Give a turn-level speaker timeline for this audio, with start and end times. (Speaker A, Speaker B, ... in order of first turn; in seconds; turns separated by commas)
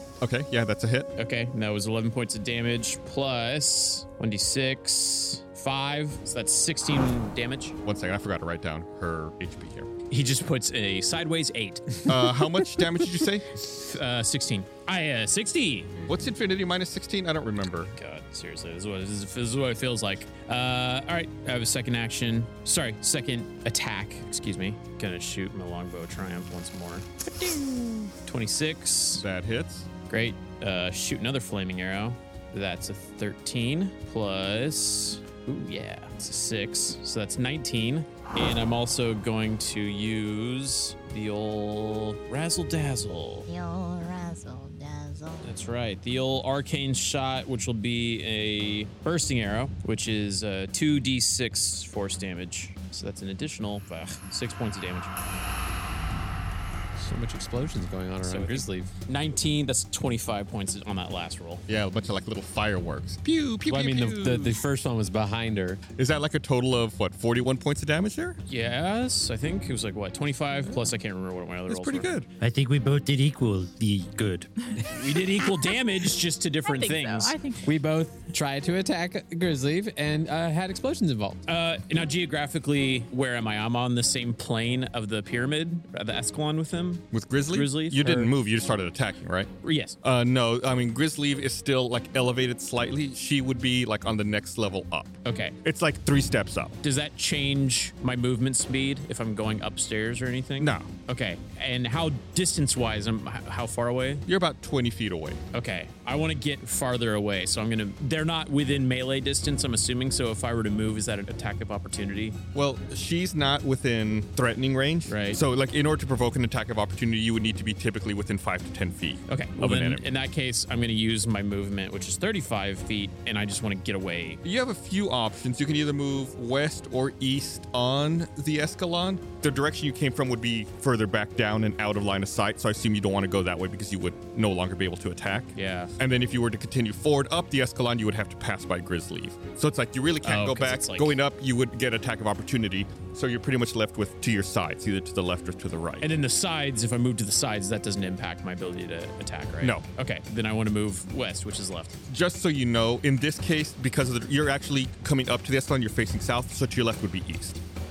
Speaker A: 0.2-1.1, Speaker B: 1.2-7.8, Speaker A: 7.8-9.9, Speaker B: 10.1-12.5, Speaker A: 12.1-13.5, Speaker B: 13.6-16.0, Speaker A: 16.1-17.9, Speaker B: 17.8-29.2, Speaker A: 29.2-29.9, Speaker B: 30.1-43.5, Speaker C: 43.5-45.5, Speaker B: 45.4-55.1, Speaker D: 57.0-58.9, Speaker B: 58.2-61.6, Speaker A: 61.7-64.5, Speaker D: 63.7-65.8, Speaker A: 66.0-68.4, Speaker B: 68.5-72.1, Speaker A: 71.7-72.3, Speaker E: 72.4-74.5, Speaker B: 74.8-77.3, Speaker C: 76.6-77.7, Speaker D: 77.6-81.4, Speaker B: 81.5-88.3, Speaker A: 87.1-89.5, Speaker B: 89.6-90.0, Speaker A: 90.0-96.8, Speaker B: 95.2-95.6, Speaker B: 96.8-104.2, Speaker A: 100.6-100.9, Speaker A: 104.2-105.4, Speaker B: 105.5-112.4, Speaker A: 112.5-120.0, Speaker B: 115.1-115.4, Speaker B: 119.3-124.4, Speaker A: 124.4-146.1, Speaker B: 135.5-135.9, Speaker B: 140.2-141.2, Speaker B: 146.0-152.0, Speaker A: 152.1-157.6